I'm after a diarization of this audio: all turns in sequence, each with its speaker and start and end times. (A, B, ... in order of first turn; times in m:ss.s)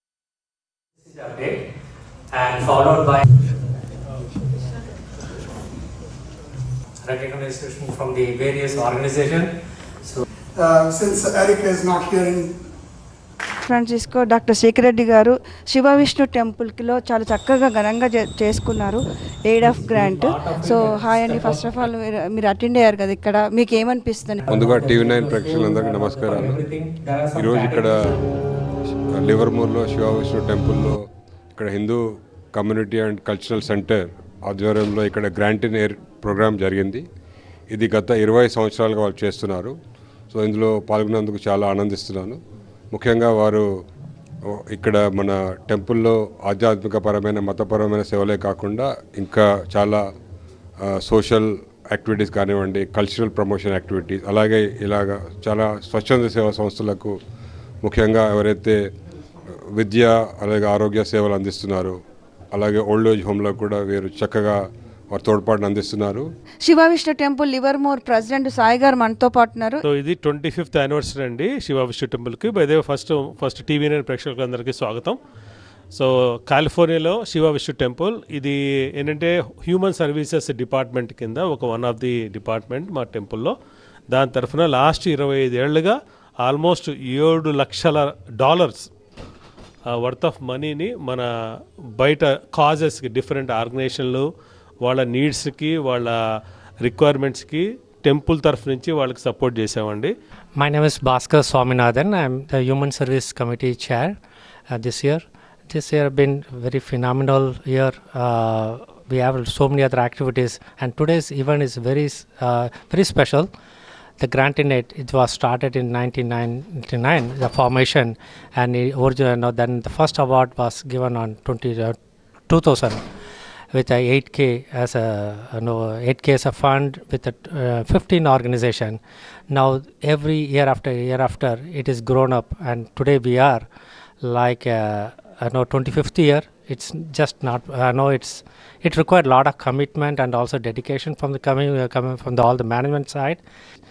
0:01.0-0:01.6 A
0:02.3-0:03.2 A
0:07.0-0:09.5 A
0:10.6-0:12.5 B
0:13.6-0:24.4 C
0:19.7-0:21.9 A
0:24.4-0:28.2 A
0:24.5-0:26.6 D
0:27.4-0:28.2 D
0:29.2-0:31.0 D
0:31.6-0:37.0 D
0:37.7-0:39.7 D
0:40.3-0:42.4 D
0:42.9-0:43.6 D
0:44.5-0:50.0 D
0:50.9-0:57.1 D
0:57.8-0:58.8 D
0:59.7-1:02.0 D
1:02.5-1:06.2 D
1:06.6-1:09.8 C
1:09.8-1:15.2 E
1:15.9-1:23.5 E
1:24.1-1:28.9 E
1:29.9-1:31.3 E
1:32.0-1:34.3 E
1:34.8-1:36.2 E
1:36.8-1:40.1 E
1:40.6-1:44.2 A
1:44.7-1:53.5 A
1:54.2-2:02.0 A
2:02.5-2:03.0 A
2:03.7-2:09.0 A
2:09.5-2:13.7 A
2:14.2-2:23.4 A